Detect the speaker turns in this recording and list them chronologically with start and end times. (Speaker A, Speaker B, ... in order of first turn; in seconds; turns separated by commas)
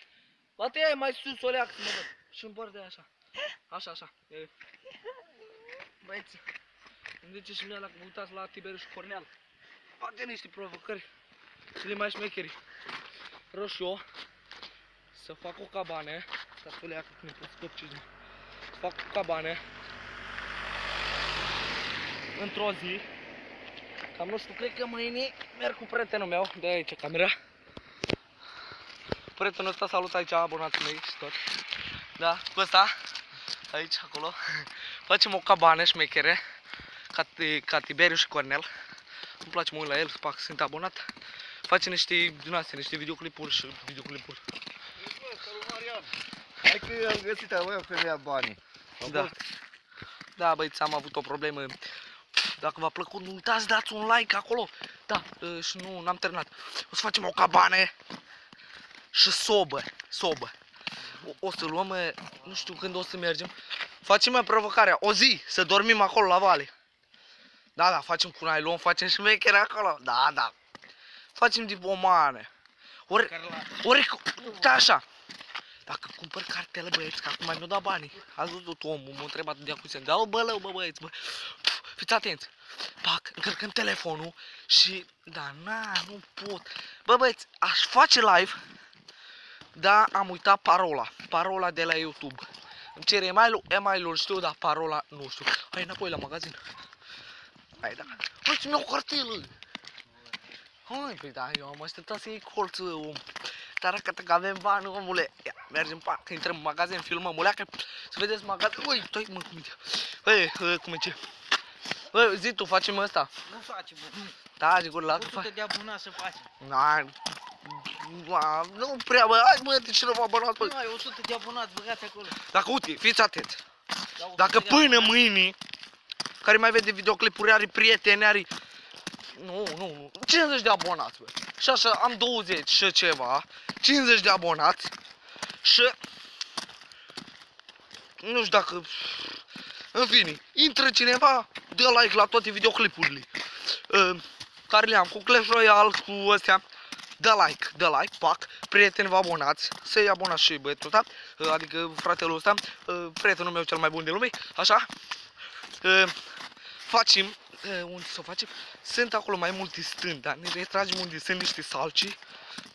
Speaker A: 0.6-3.0, Speaker A: 3.7-4.5, Speaker A: 6.0-6.4, Speaker A: 7.2-9.3, Speaker A: 10.0-11.0, Speaker A: 11.8-12.6, Speaker A: 13.5-14.0, Speaker A: 15.1-18.1, Speaker A: 18.7-19.6, Speaker A: 22.3-23.1, Speaker A: 24.1-27.4, Speaker A: 29.4-31.4, Speaker A: 32.1-32.9, Speaker A: 33.7-36.4, Speaker A: 37.1-38.7, Speaker A: 39.4-41.1, Speaker A: 41.6-44.4, Speaker B: 45.0-46.1, Speaker B: 46.6-49.3, Speaker A: 49.0-49.3, Speaker A: 50.4-51.8, Speaker A: 52.4-57.9, Speaker A: 59.1-60.5, Speaker A: 61.0-66.7, Speaker A: 67.8-70.5, Speaker A: 71.3-72.5, Speaker A: 73.1-75.0, Speaker A: 75.9-88.6, Speaker A: 89.8-92.4, Speaker A: 93.0-96.6, Speaker A: 97.8-99.5, Speaker A: 100.8-103.3, Speaker A: 103.8-111.2, Speaker A: 112.1-113.3, Speaker C: 113.5-114.3, Speaker A: 114.6-115.5, Speaker C: 115.1-116.5, Speaker A: 116.6-120.8, Speaker C: 120.6-122.4, Speaker A: 122.3-123.6, Speaker C: 124.2-125.1, Speaker A: 124.3-125.6, Speaker A: 126.4-128.5, Speaker A: 129.3-134.9, Speaker A: 135.6-135.9, Speaker A: 138.2-146.6, Speaker A: 147.2-154.9, Speaker A: 155.8-162.2